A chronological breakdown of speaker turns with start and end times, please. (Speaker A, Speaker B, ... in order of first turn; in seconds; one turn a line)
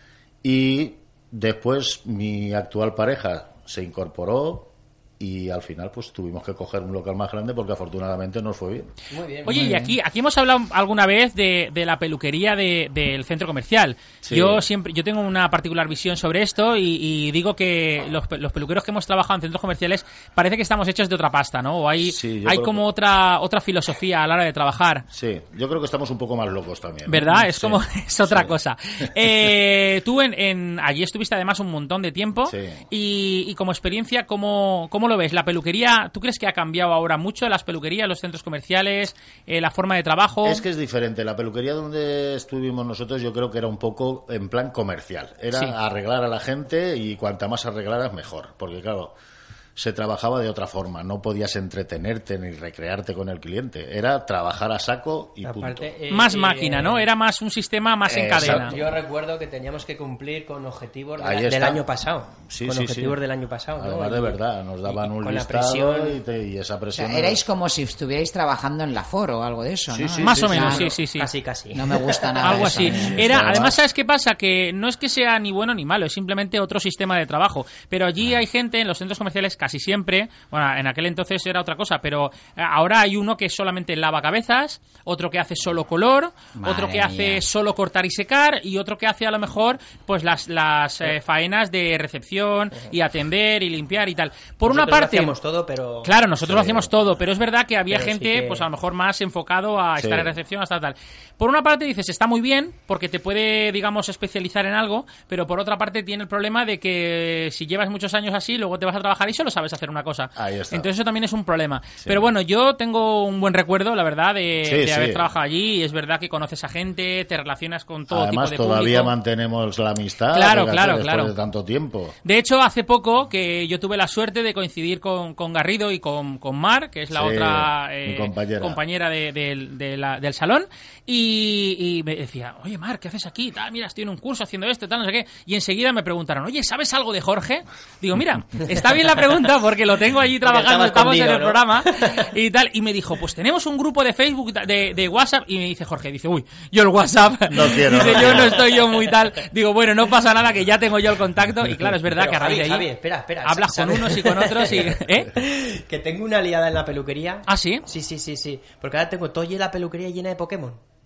Speaker A: 0.4-8.9
Speaker B: 9.1-9.9
Speaker C: 9.4-25.0
Speaker A: 14.2-14.6
Speaker A: 22.0-22.8
Speaker A: 25.1-28.5
Speaker C: 27.1-40.6
Speaker A: 32.5-32.8
Speaker A: 40.4-49.1
Speaker A: 49.8-55.9
Speaker B: 55.4-57.1
Speaker C: 56.1-58.7
Speaker A: 58.1-58.8
Speaker B: 58.4-66.2
Speaker A: 61.2-61.8
Speaker A: 62.5-63.2
Speaker A: 63.8-67.4
Speaker D: 66.9-70.8
Speaker A: 69.9-70.8
Speaker C: 70.2-71.3
Speaker B: 70.5-73.0
Speaker D: 71.7-73.0
Speaker C: 72.4-95.3
Speaker A: 73.1-73.8
Speaker D: 86.6-87.4
Speaker B: 94.6-96.2
Speaker C: 96.0-119.1
Speaker A: 96.4-96.9
Speaker B: 97.9-98.7
Speaker A: 100.0-100.3
Speaker A: 110.3-110.9
Speaker A: 114.6-115.3
Speaker A: 118.1-122.1
Speaker C: 120.3-121.3
Speaker C: 122.2-152.9
Speaker A: 127.1-128.8
Speaker B: 140.4-142.2
Speaker A: 147.5-148.5
Speaker B: 147.9-149.1
Speaker B: 152.0-160.8
Speaker C: 153.4-155.3
Speaker C: 157.4-157.8